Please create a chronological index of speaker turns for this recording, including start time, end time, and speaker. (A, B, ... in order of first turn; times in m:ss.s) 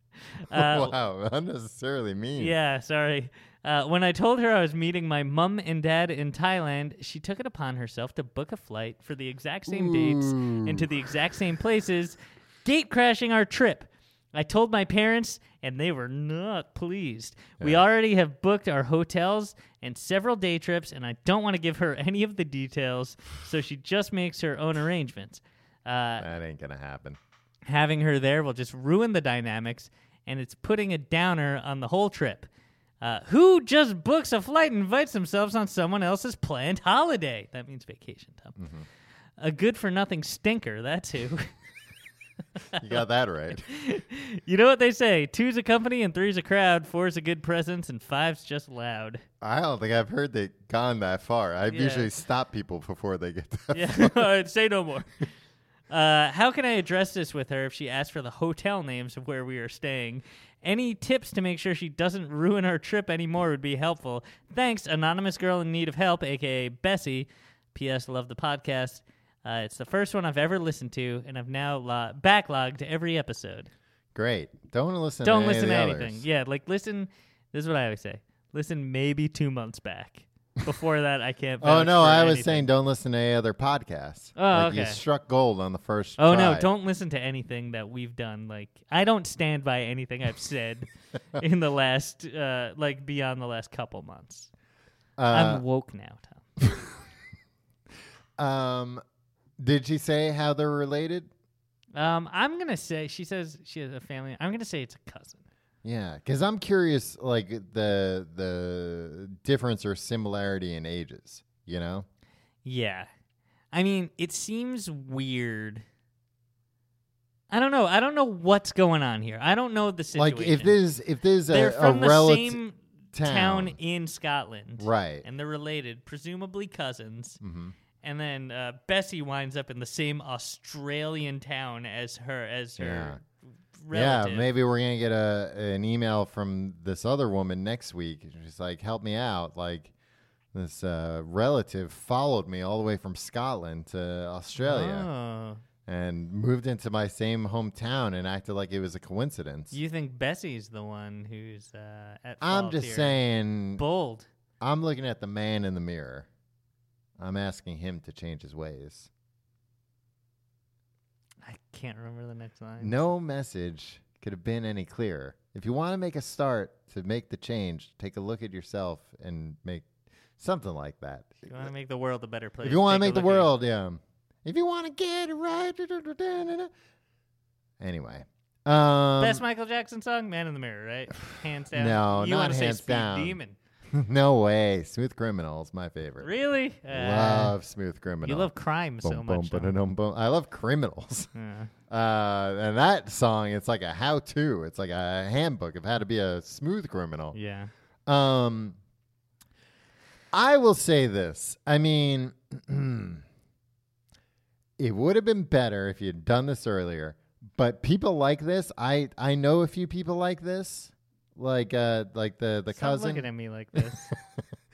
0:00.3-0:00.9 A
0:00.5-0:02.5 B
0:02.4-0:26.2 A
0:09.7-0:10.9 B
0:26.2-0:27.2 B
0:27.6-0:32.5 A
0:33.0-0:38.6 A
0:38.6-0:38.8 B
0:39.4-0:41.5 A
0:42.8-0:43.6 B
0:43.6-0:49.2 A
0:49.4-0:54.2 B
0:51.7-0:52.1 A
0:53.7-0:55.2 A
0:55.9-1:13.7 A
1:14.1-1:16.2 B
1:15.2-1:22.7 A
1:21.6-1:26.7 B
1:24.4-1:25.0 A
1:26.2-1:34.5 A
1:35.2-1:35.6 B
1:35.3-1:36.4 A
1:38.4-1:39.0 B
1:39.6-1:41.3 B
1:41.9-1:45.4 A
1:45.8-1:52.1 B
1:52.6-1:53.1 A
1:53.7-1:55.8 A
1:57.5-2:00.8 A
2:00.2-2:02.6 B
2:01.5-2:07.4 A
2:03.1-2:03.7 B
2:04.8-2:05.2 B
2:07.4-2:07.7 B
2:08.0-2:13.2 A
2:12.8-2:13.2 B
2:13.8-2:14.5 A
2:13.9-2:19.9 B
2:20.5-2:25.1 B
2:24.6-2:25.6 A
2:25.8-2:29.8 B
2:29.7-2:33.2 A
2:32.4-2:33.8 B
2:33.8-2:34.3 A
2:34.6-2:36.3 B
2:37.2-2:39.1 B
2:41.4-2:43.0 A
2:42.8-2:49.9 B
2:50.4-2:51.7 B
2:51.4-2:53.5 A
2:52.6-2:56.7 B
2:57.8-2:59.4 B
2:59.2-3:03.6 A
3:01.7-3:03.4 B
3:03.9-3:06.3 B
3:06.2-3:07.5 A
3:06.9-3:08.5 B
3:08.2-3:09.7 A
3:09.0-3:11.3 B
3:11.3-3:11.7 A
3:11.9-3:17.4 B
3:17.3-3:17.7 A
3:18.0-3:18.8 B
3:20.3-3:23.2 B
3:24.8-3:34.1 B
3:32.7-3:34.1 A